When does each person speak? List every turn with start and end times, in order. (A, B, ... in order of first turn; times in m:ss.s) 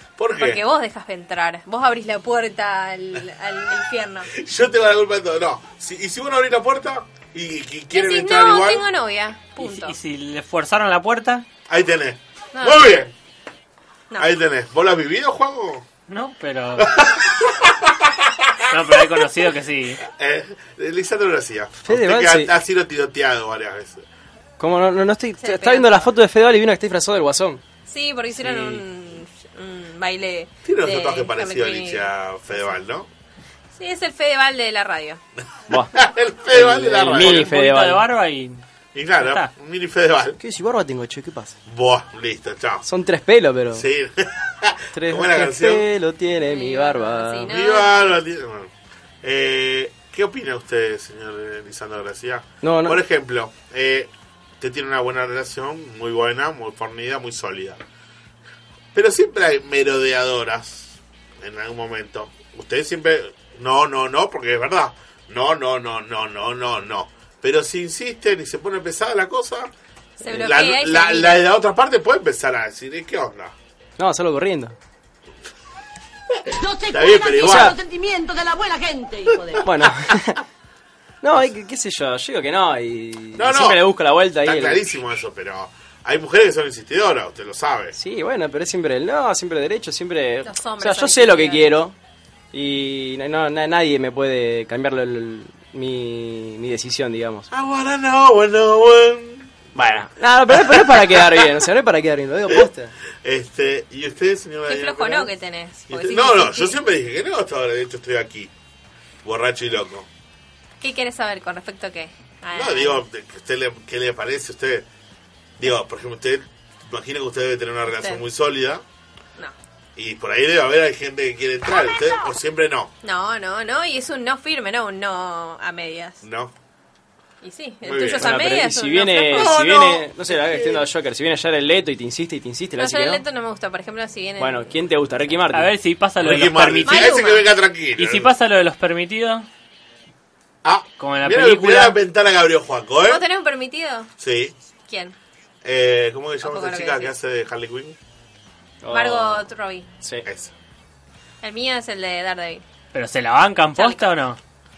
0:00.2-0:00.6 A
0:00.4-0:04.3 B
0:04.3-0:08.9 A
0:07.9-0:10.0 B
0:09.6-0:11.4 C
0:11.7-0:13.1 A
0:12.5-0:12.9 B
0:14.2-0:15.8 A
0:16.1-0:16.9 C
0:16.8-0:19.2 A
0:18.7-0:20.0 C
0:20.0-0:24.0 A
0:21.8-0:22.5 D
0:24.6-0:27.6 D
0:25.4-0:26.1 B
0:27.9-0:32.1 B
0:30.6-0:33.1 A
0:33.7-0:35.2 B
0:35.9-0:37.5 A
0:36.5-0:38.0 D
0:37.1-0:38.6 C
0:38.9-0:40.4 A
0:39.2-0:39.5 C
0:40.4-0:41.6 D
0:41.6-0:42.8 A
0:42.8-0:43.8 D
0:43.7-0:45.9 A
0:44.9-0:47.5 D
0:46.4-0:48.2 B
0:47.5-0:57.8 A
0:52.6-0:53.0 D
0:58.9-1:09.7 A
1:10.2-1:11.4 B
1:10.2-1:13.5 A
1:14.0-1:14.8 D
1:16.5-1:19.7 E
1:16.9-1:17.8 A
1:17.4-1:17.7 D
1:19.6-1:20.4 D
1:21.2-1:24.8 D
1:23.4-1:27.9 A
1:27.9-1:31.9 D
1:30.4-1:31.8 B
1:32.5-1:37.5 D
1:37.5-1:41.7 A
1:39.7-1:42.9 D
1:43.2-1:45.3 A
1:44.7-1:46.8 B
1:45.9-1:48.5 A
1:49.2-1:50.1 A
1:50.8-1:53.0 B
1:52.5-1:54.9 A
1:55.6-1:58.8 A
1:57.9-1:58.2 B
2:00.0-2:02.9 A
2:03.0-2:06.2 B
2:06.2-2:06.5 A
2:07.4-2:09.6 B
2:07.8-2:08.4 A
2:08.2-2:13.2 D
2:09.3-2:10.9 A
2:12.8-2:14.6 B
2:14.4-2:15.7 D
2:15.5-2:17.1 C
2:16.2-2:18.3 A
2:16.8-2:17.5 B
2:18.0-2:19.5 C
2:20.6-2:23.2 A
2:21.0-2:22.0 C
2:23.0-2:24.1 B
2:24.2-2:24.5 A
2:24.9-2:25.2 B
2:25.6-2:28.0 A
2:26.4-2:27.1 B
2:28.8-2:29.4 D
2:28.9-2:29.9 B
2:30.0-2:30.2 D
2:30.2-2:30.5 A
2:31.4-2:32.6 B
2:32.9-2:34.4 C
2:33.7-2:34.0 B